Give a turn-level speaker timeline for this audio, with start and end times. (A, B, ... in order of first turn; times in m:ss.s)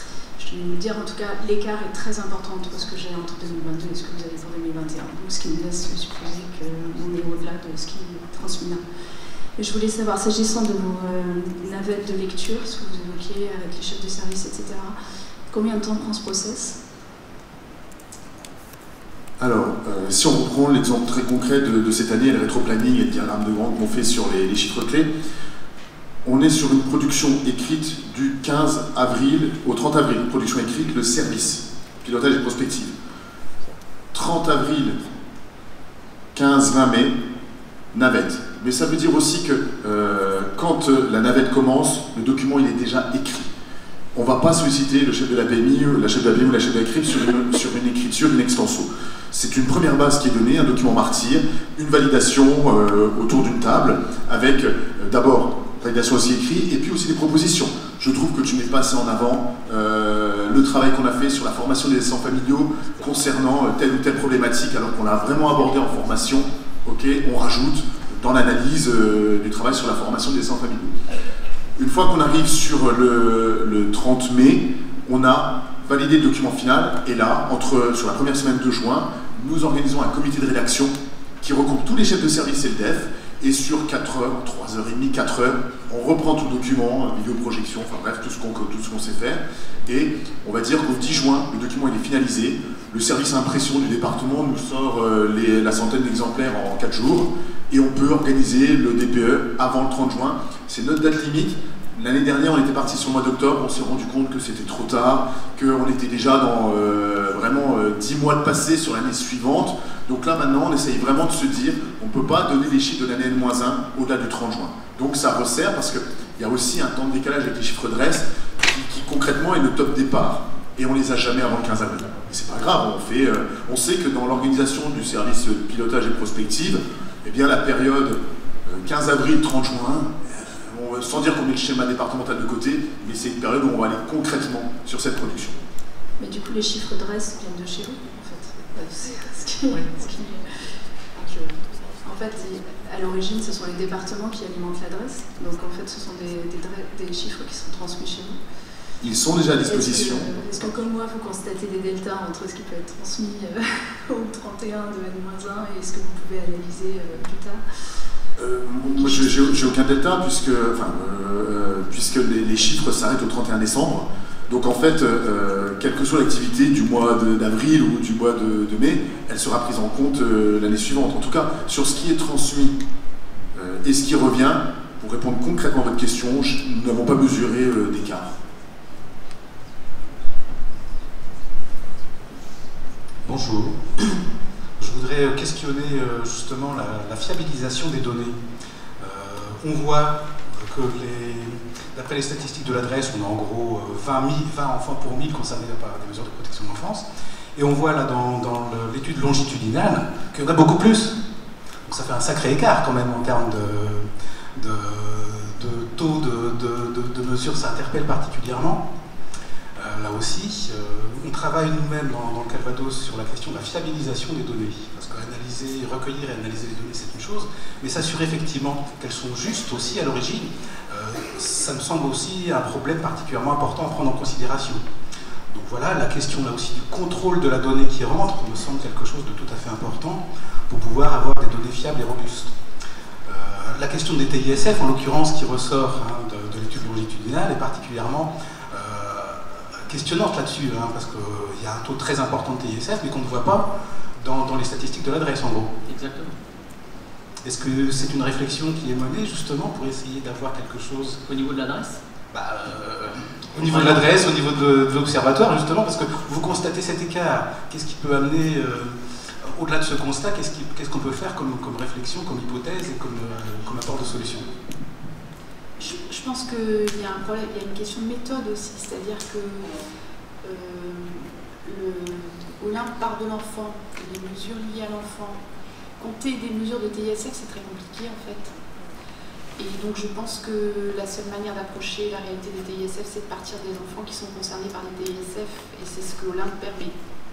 0:00.4-0:08.8 A
0:09.6-0:14.9 A
0:15.5-0:16.8 A
0:19.4-0:25.1 B
0:26.2-0:32.9 B
0:34.1-0:35.0 B
0:36.3-0:37.1 B
0:37.9-0:43.5 B
0:44.1-1:10.9 B
1:11.8-2:15.6 B
2:16.2-2:20.4 A
2:21.1-2:28.4 A
2:29.0-2:30.3 B
2:29.6-2:37.6 A
2:38.4-2:52.8 B
2:38.9-2:39.7 A
2:53.5-2:58.3 B
3:03.2-3:04.2 C
3:04.8-3:08.4 C
3:09.0-3:17.0 C
3:17.6-3:21.2 C
3:21.9-3:28.8 C
3:29.8-3:44.8 C
3:45.5-3:52.6 C
3:53.2-4:05.7 C
4:05.8-4:06.3 D
4:07.4-4:11.2 C
4:11.2-4:12.0 D
4:12.3-4:24.5 C
4:13.6-4:14.3 D
4:25.8-4:29.8 E
4:30.4-4:35.4 E
4:36.0-4:38.5 E
4:39.6-4:47.0 E